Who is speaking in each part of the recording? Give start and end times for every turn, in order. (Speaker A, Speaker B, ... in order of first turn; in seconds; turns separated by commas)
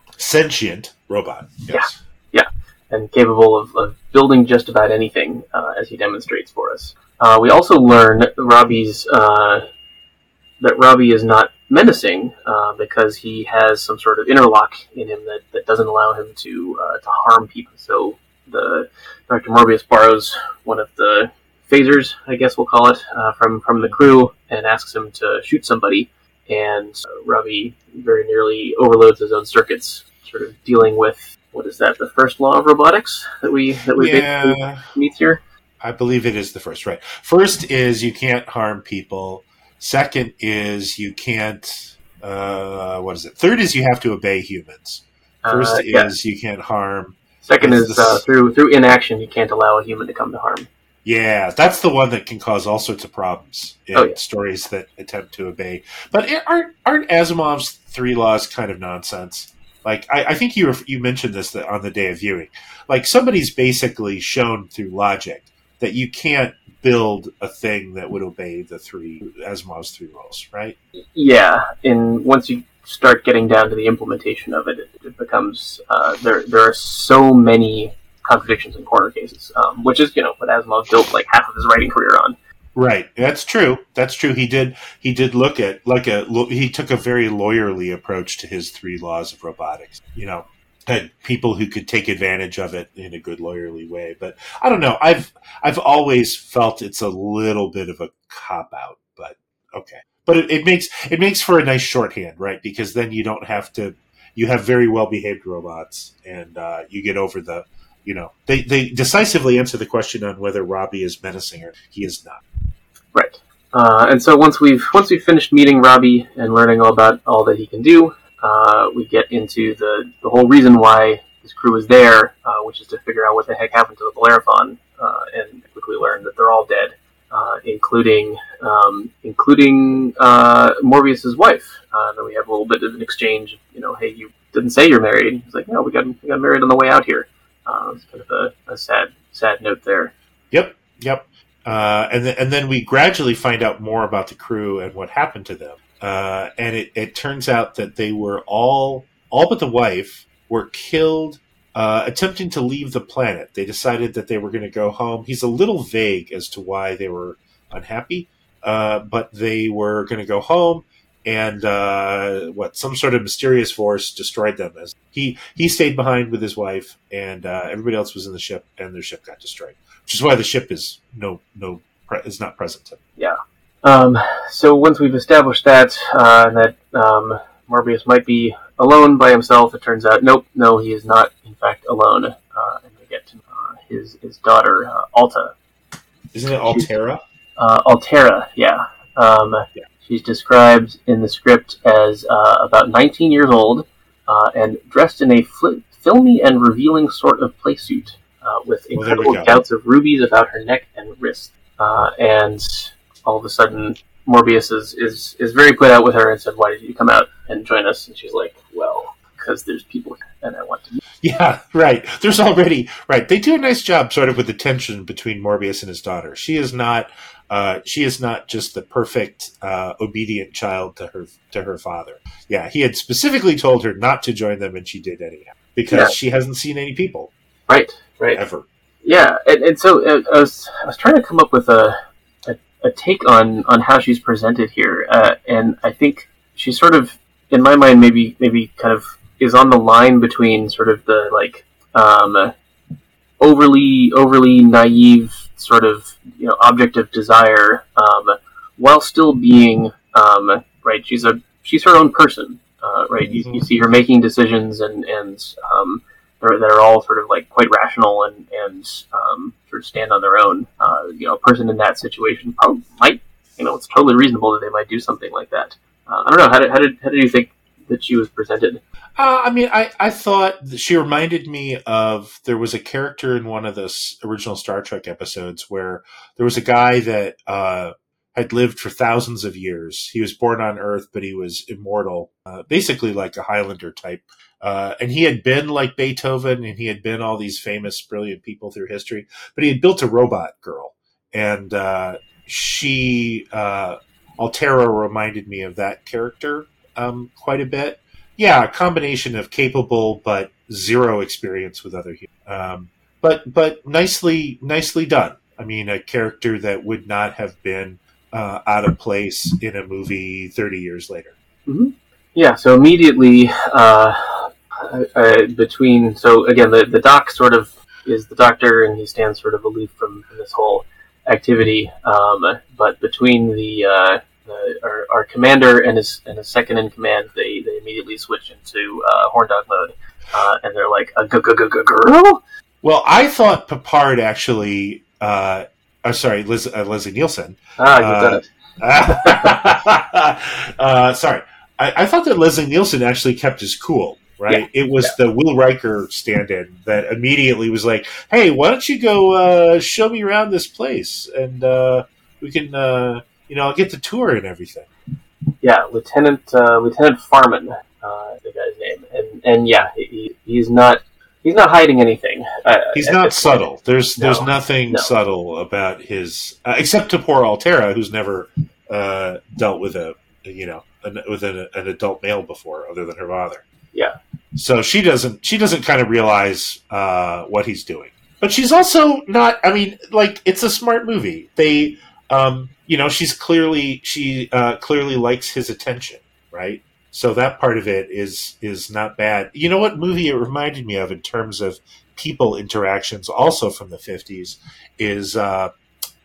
Speaker A: 0.2-2.0, Speaker B: 1.7-9.6, Speaker B: 10.6-35.4, Speaker A: 34.0-34.9, Speaker A: 35.8-48.2, Speaker B: 45.4-46.1, Speaker B: 47.4-50.7, Speaker A: 51.0-70.8, Speaker B: 71.1-82.3, Speaker A: 82.7-112.4, Speaker B: 113.1-140.1, Speaker A: 140.5-173.0, Speaker B: 173.2-185.5, Speaker A: 186.3-187.2, Speaker B: 186.7-186.9, Speaker B: 187.6-211.0, Speaker A: 198.9-199.6, Speaker A: 211.2-227.3, Speaker B: 227.7-228.4, Speaker A: 228.3-228.6, Speaker B: 229.0-242.5, Speaker B: 243.4-268.8, Speaker A: 253.2-253.7, Speaker A: 269.2-311.3, Speaker B: 311.7-332.4, Speaker A: 332.8-354.9, Speaker B: 337.8-338.4, Speaker B: 344.5-345.1, Speaker B: 355.6-363.6, Speaker A: 362.9-373.6, Speaker B: 364.2-365.1, Speaker A: 374.5-395.7